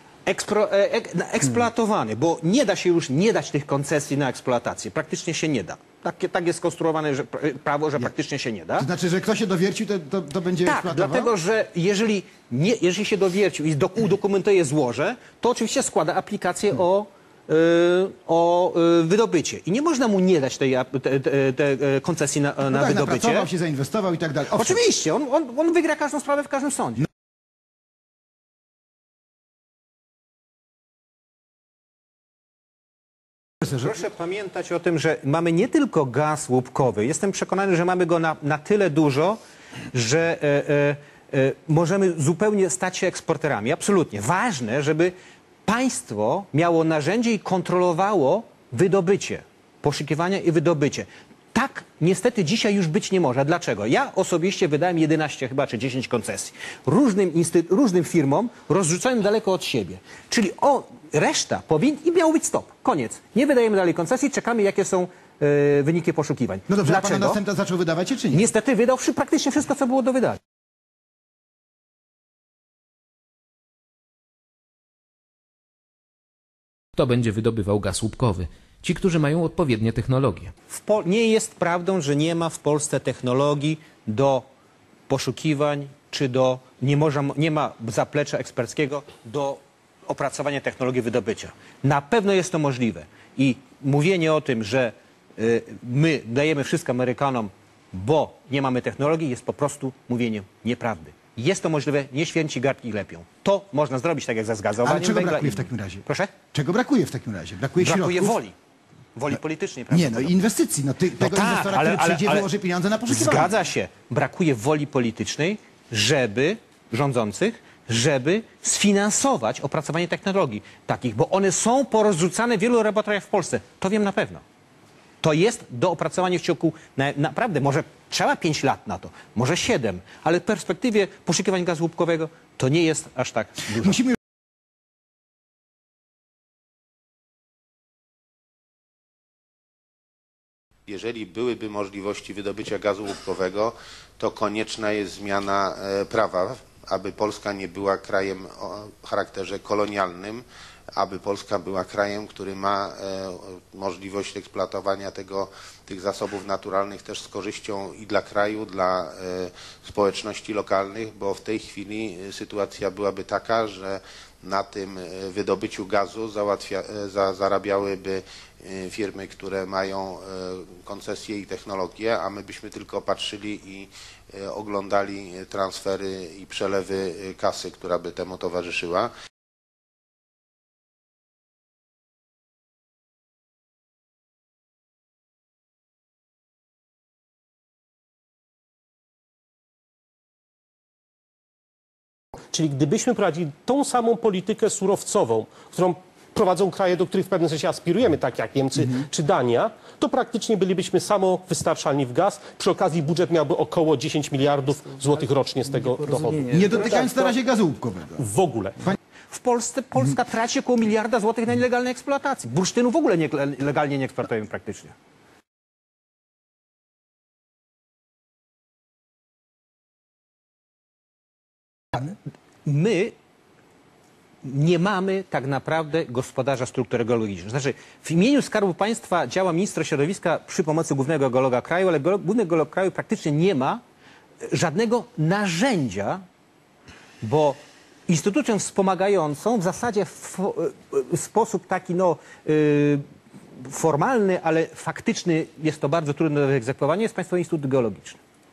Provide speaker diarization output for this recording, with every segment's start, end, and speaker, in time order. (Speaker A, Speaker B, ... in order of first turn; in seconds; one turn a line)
Speaker A: 0.2-8.9
Speaker B: 8.8-11.3
Speaker A: 10.6-23.5
Speaker B: 22.7-24.8
Speaker A: 24.5-27.1
Speaker A: 33.7-39.4
Speaker A: 39.9-45.1
Speaker A: 45.6-67.4
Speaker B: 66.7-68.5
Speaker A: 68.3-70.4
Speaker C: 76.9-80.5
Speaker A: 80.7-84.4
Speaker A: 85.1-106.3
Speaker B: 104.8-108.4
Speaker A: 107.8-108.5
Speaker A: 109.1-110.4
Speaker B: 109.9-113.5
Speaker A: 111.2-112.5
Speaker A: 113.1-124.4
Speaker A: 125.2-134.0
Speaker D: 140.9-150.4
Speaker D: 150.9-179.1
Speaker E: 192.5-207.3
Speaker B: 206.5-208.2
Speaker E: 208.2-208.8
Speaker A: 209.3-214.9
Speaker A: 222.7-223.1
Speaker A: 224.4-233.8
Speaker A: 234.4-236.2
Speaker A: 237.2-243.0
Speaker A: 243.6-248.2